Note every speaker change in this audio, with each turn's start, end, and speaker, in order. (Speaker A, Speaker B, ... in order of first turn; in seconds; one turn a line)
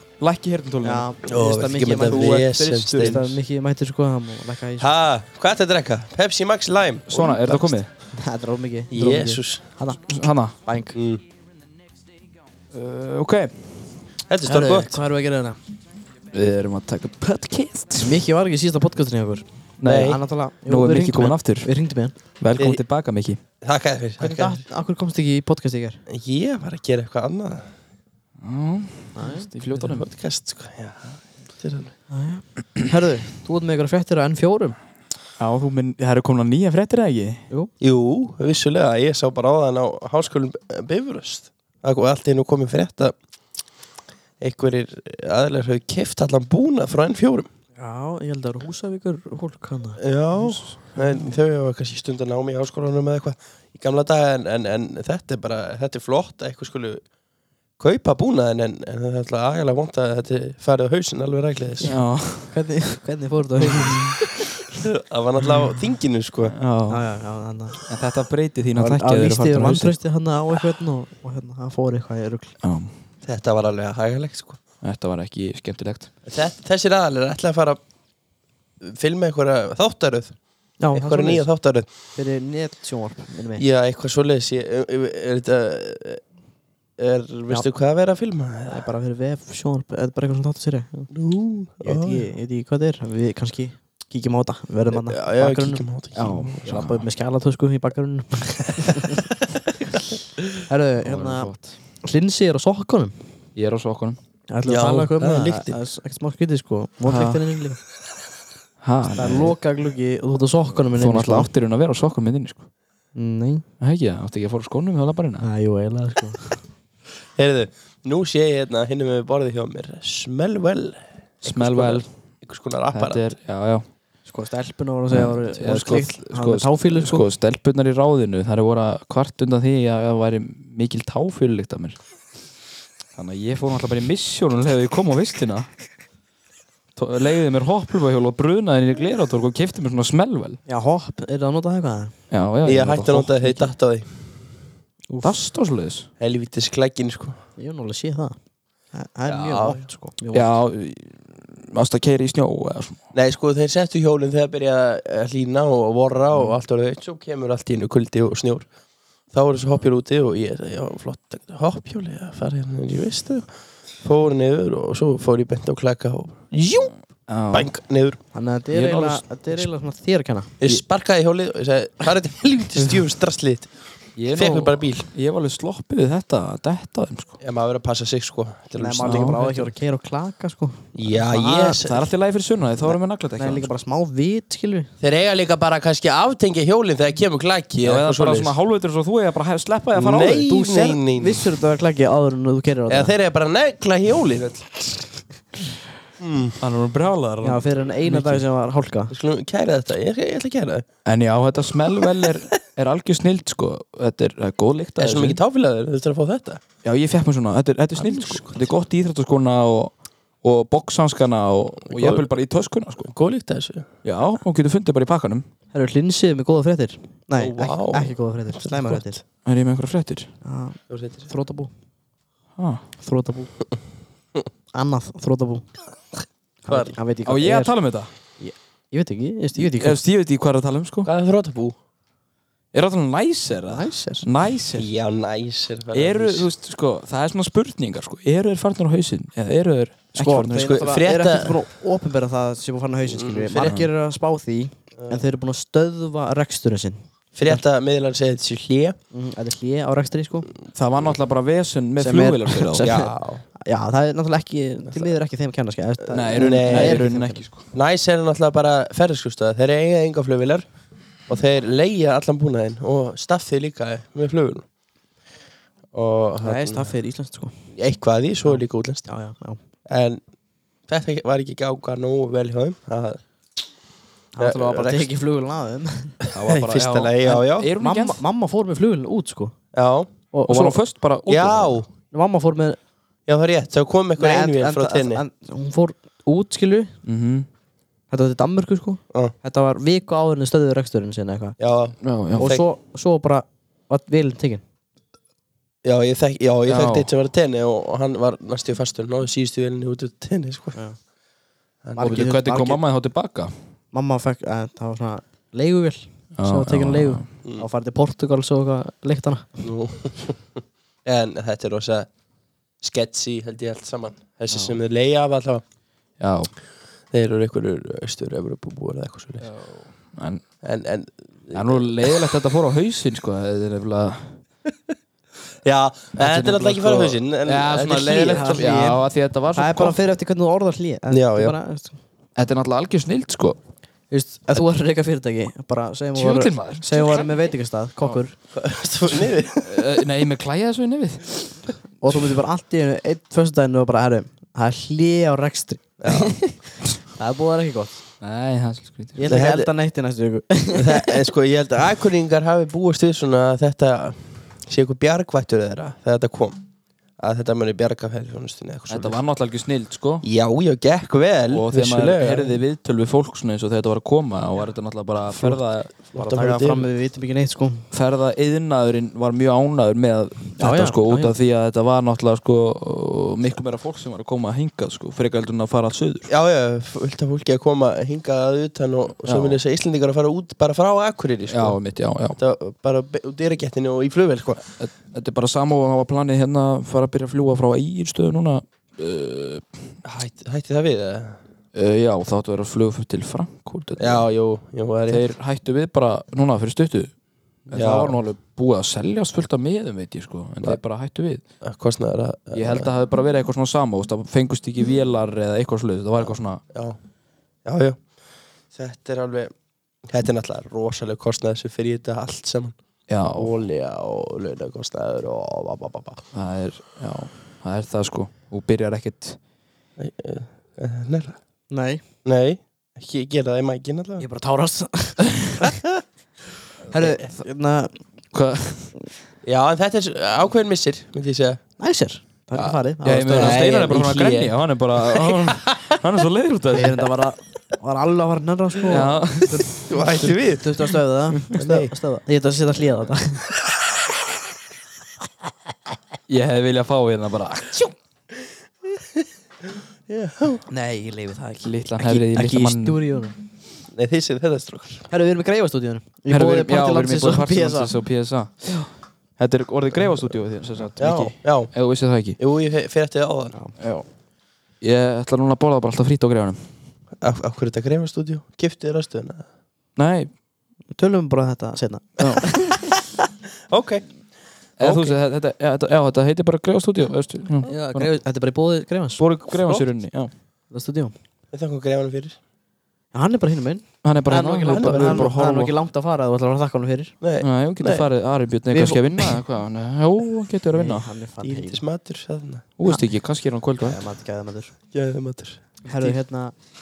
Speaker A: 0.2-1.1
Speaker B: 0.8-4.9
Speaker C: 1.2-3.3
Speaker A: 2.0-3.3
Speaker C: 4.8-7.8
Speaker A: 7.1-7.9
Speaker B: 8.1-10.9
Speaker C: 8.9-9.6
Speaker A: 10.0-10.5
Speaker C: 10.9-11.2
Speaker A: 12.7-13.8
Speaker C: 14.3-15.0
Speaker B: 14.4-15.6
Speaker A: 16.3-18.2
Speaker B: 18.0-22.1
Speaker A: 19.8-21.7
Speaker C: 19.8-20.2
Speaker A: 22.4-23.4
Speaker C: 22.6-22.8
Speaker C: 23.6-24.6
Speaker B: 24.2-26.0
Speaker C: 26.1-27.7
Speaker A: 28.4-30.1
Speaker B: 29.1-29.5
Speaker C: 29.8-31.9
Speaker B: 32.1-34.8
Speaker A: 35.4-37.4
Speaker C: 37.8-43.1
Speaker C: 44.4-47.5
Speaker B: 47.8-50.0
Speaker C: 50.0-57.0
Speaker A: 50.4-50.8
Speaker C: 57.8-61.9
Speaker A: 61.9-62.5
Speaker B: 62.5-64.4
Speaker A: 63.7-64.1
Speaker C: 64.7-66.5
Speaker A: 66.5-67.0
Speaker B: 66.9-67.8
Speaker A: 67.8-70.0
Speaker B: 68.8-72.5
Speaker A: 72.6-72.9
Speaker C: 73.2-74.6
Speaker A: 74.8-76.1
Speaker C: 76.2-77.8
Speaker C: 78.8-80.3
Speaker B: 80.8-81.5
Speaker C: 80.9-81.9
Speaker B: 82.1-83.6
Speaker C: 83.5-86.2
Speaker C: 87.0-88.8
Speaker B: 88.7-91.1
Speaker C: 91.1-92.2
Speaker B: 91.8-99.3
Speaker C: 94.9-96.9
Speaker A: 96.2-97.0
Speaker B: 100.7-101.5
Speaker A: 101.0-101.7
Speaker B: 102.0-103.1
Speaker A: 103.5-104.2
Speaker B: 104.5-107.8
Speaker C: 104.7-105.8
Speaker A: 107.0-107.4
Speaker A: 108.8-109.5
Speaker B: 109.2-111.5
Speaker A: 110.9-112.7
Speaker B: 113.1-113.6
Speaker A: 113.8-115.5
Speaker B: 115.4-116.6
Speaker C: 117.3-123.2
Speaker A: 121.4-122.1
Speaker A: 122.9-123.8
Speaker B: 124.2-127.3
Speaker A: 125.1-132.0
Speaker A: 133.2-135.7
Speaker A: 136.9-140.6
Speaker B: 140.7-142.1
Speaker A: 142.3-143.4
Speaker C: 142.6-144.2
Speaker B: 145.1-145.4
Speaker A: 145.2-146.1
Speaker C: 146.2-147.4
Speaker B: 147.6-148.3
Speaker B: 148.9-150.5
Speaker C: 149.2-149.9
Speaker A: 150.3-153.0
Speaker C: 153.1-158.7
Speaker C: 159.3-166.9
Speaker A: 167.3-167.7
Speaker C: 167.5-168.2
Speaker B: 168.3-170.5
Speaker A: 168.7-169.6
Speaker C: 170.6-173.7
Speaker A: 174.2-177.3
Speaker C: 174.3-175.1
Speaker C: 177.4-179.4
Speaker B: 178.8-181.8
Speaker A: 179.0-179.7
Speaker C: 180.9-182.1
Speaker A: 181.8-183.7
Speaker B: 183.4-184.9
Speaker C: 185.0-188.5
Speaker A: 187.8-190.7
Speaker C: 189.9-191.4
Speaker B: 190.6-193.1
Speaker C: 192.9-195.1
Speaker C: 196.2-196.6
Speaker A: 196.6-198.4
Speaker B: 197.4-199.1
Speaker C: 199.1-200.8
Speaker A: 201.0-205.4
Speaker C: 205.0-206.6
Speaker A: 206.8-213.1
Speaker C: 208.0-208.7
Speaker C: 211.9-212.3
Speaker C: 213.0-213.9
Speaker A: 214.0-215.4
Speaker B: 215.7-219.2
Speaker C: 217.3-219.0
Speaker A: 219.4-220.3
Speaker B: 220.4-221.7
Speaker C: 220.9-221.3
Speaker A: 222.6-222.8
Speaker B: 223.0-223.5
Speaker B: 224.7-225.7
Speaker B: 226.6-227.8
Speaker C: 226.7-227.0
Speaker A: 227.2-228.1
Speaker B: 228.4-230.0
Speaker A: 229.6-231.1
Speaker C: 231.0-231.8
Speaker A: 232.7-234.9
Speaker B: 233.7-234.2
Speaker C: 234.7-236.5
Speaker A: 235.9-241.0
Speaker B: 240.2-247.6
Speaker C: 240.5-241.6
Speaker C: 243.1-243.8
Speaker C: 247.3-249.0
Speaker B: 249.1-250.5
Speaker A: 250.7-252.9
Speaker B: 252.0-257.5
Speaker C: 252.8-253.4
Speaker A: 256.1-257.6
Speaker C: 256.3-257.0
Speaker C: 257.7-260.6
Speaker C: 261.3-264.6
Speaker C: 265.9-266.9
Speaker B: 266.4-267.5
Speaker C: 267.7-269.1
Speaker B: 268.4-269.6
Speaker C: 269.9-270.2
Speaker C: 270.9-273.2
Speaker B: 274.3-276.2
Speaker C: 274.4-275.1
Speaker C: 276.2-277.7
Speaker A: 276.3-278.2
Speaker B: 277.2-279.6
Speaker C: 279.7-280.1
Speaker B: 280.3-280.8
Speaker A: 280.5-281.8
Speaker C: 281.2-281.9
Speaker B: 282.1-282.8
Speaker C: 283.3-285.2
Speaker B: 284.2-286.9
Speaker A: 287.1-287.5
Speaker B: 288.1-291.6
Speaker C: 291.6-292.6
Speaker A: 292.0-292.5
Speaker B: 292.4-294.6
Speaker C: 295.8-300.8
Speaker A: 296.7-297.1
Speaker C: 301.8-302.3
Speaker B: 301.9-302.8
Speaker A: 302.0-303.5
Speaker B: 303.9-309.6
Speaker A: 306.4-307.2
Speaker C: 309.6-312.1
Speaker C: 312.8-315.6
Speaker A: 316.2-316.5
Speaker C: 317.1-319.5
Speaker A: 319.4-320.4
Speaker C: 320.6-322.3
Speaker A: 321.5-324.4
Speaker C: 325.6-328.8
Speaker A: 326.1-330.0
Speaker B: 328.3-329.0
Speaker B: 329.5-332.0
Speaker C: 331.1-331.6
Speaker A: 332.4-333.6
Speaker B: 334.1-338.3
Speaker A: 336.1-337.5
Speaker C: 338.5-339.7
Speaker A: 339.6-341.7
Speaker B: 342.0-348.0
Speaker C: 346.0-346.4
Speaker A: 348.2-349.2
Speaker B: 349.2-351.2
Speaker C: 349.2-349.7
Speaker C: 350.7-356.6
Speaker C: 357.2-359.2
Speaker A: 358.9-360.2
Speaker C: 360.2-362.6
Speaker A: 361.5-366.0
Speaker C: 365.3-366.9
Speaker B: 366.1-367.9
Speaker A: 367.9-376.3
Speaker B: 370.6-371.3
Speaker C: 376.3-381.8
Speaker A: 379.2-379.6
Speaker A: 381.5-382.4
Speaker C: 382.4-384.6
Speaker A: 384.8-389.8
Speaker C: 390.0-391.4
Speaker A: 391.7-394.2
Speaker C: 394.0-395.2
Speaker A: 395.1-397.1
Speaker A: 397.6-401.4
Speaker C: 397.7-398.2
Speaker C: 401.6-402.9
Speaker A: 402.5-406.6
Speaker C: 406.7-407.0
Speaker C: 407.6-408.1
Speaker C: 408.7-409.5
Speaker C: 410.0-412.8
Speaker A: 413.1-413.5
Speaker C: 413.3-416.2
Speaker A: 416.3-419.4
Speaker C: 420.0-421.4
Speaker B: 421.7-422.0
Speaker C: 422.2-424.2
Speaker B: 424.2-425.4
Speaker C: 426.9-427.2
Speaker B: 426.9-428.0
Speaker A: 428.3-428.9
Speaker C: 429.4-431.6
Speaker B: 431.8-433.6
Speaker C: 432.5-432.8
Speaker A: 433.0-437.1
Speaker C: 433.3-435.9
Speaker B: 436.7-443.5
Speaker A: 438.9-439.8
Speaker C: 439.9-440.9
Speaker C: 441.5-441.9
Speaker A: 446.3-447.9
Speaker C: 450.1-450.6
Speaker B: 450.7-453.4
Speaker A: 451.6-453.0
Speaker C: 453.9-455.1
Speaker B: 455.1-457.9
Speaker A: 456.3-458.8
Speaker A: 459.4-462.4
Speaker C: 461.0-461.8
Speaker C: 462.4-463.5
Speaker A: 463.8-464.0
Speaker A: 464.8-466.6
Speaker C: 467.2-469.4
Speaker A: 470.0-470.3
Speaker B: 470.9-472.9
Speaker A: 472.2-472.4
Speaker C: 473.7-474.0
Speaker C: 474.8-475.1
Speaker A: 474.8-478.1
Speaker B: 477.6-479.7
Speaker A: 479.2-480.3
Speaker B: 480.7-481.1
Speaker C: 481.5-482.4
Speaker B: 483.1-487.1
Speaker A: 484.0-485.7
Speaker C: 484.7-485.3
Speaker C: 487.2-488.1
Speaker A: 487.4-491.1
Speaker B: 488.7-489.4
Speaker B: 490.7-491.8
Speaker C: 491.4-492.7
Speaker A: 492.8-494.0
Speaker B: 493.8-494.7
Speaker C: 494.9-495.8
Speaker B: 495.8-496.6